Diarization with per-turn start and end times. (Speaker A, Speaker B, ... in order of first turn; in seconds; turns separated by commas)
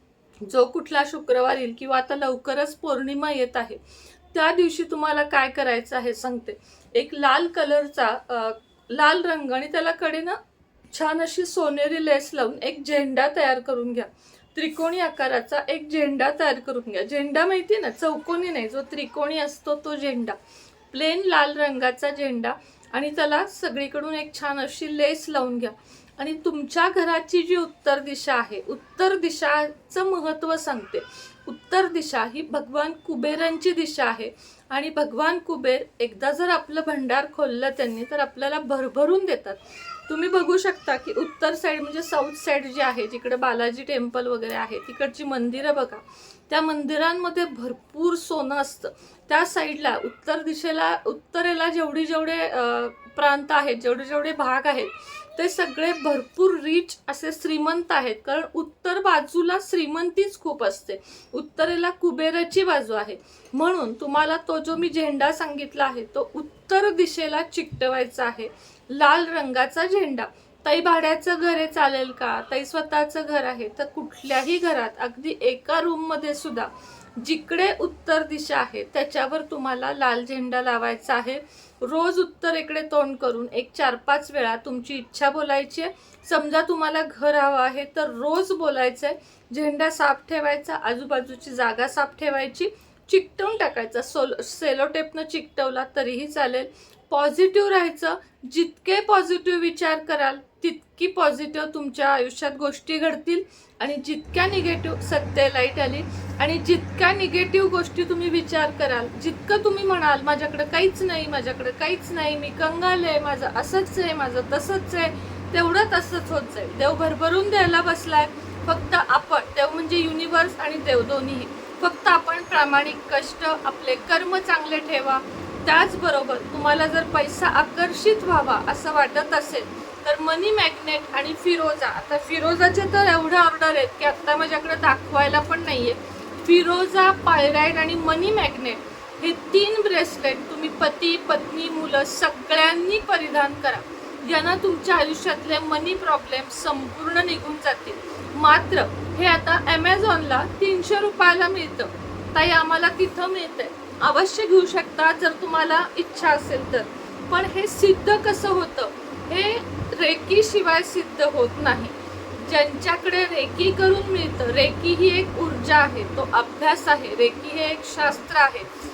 Speaker A: 0.5-3.8, Speaker A: 4.3-10.4, Speaker A: 10.9-20.4, Speaker A: 20.9-168.7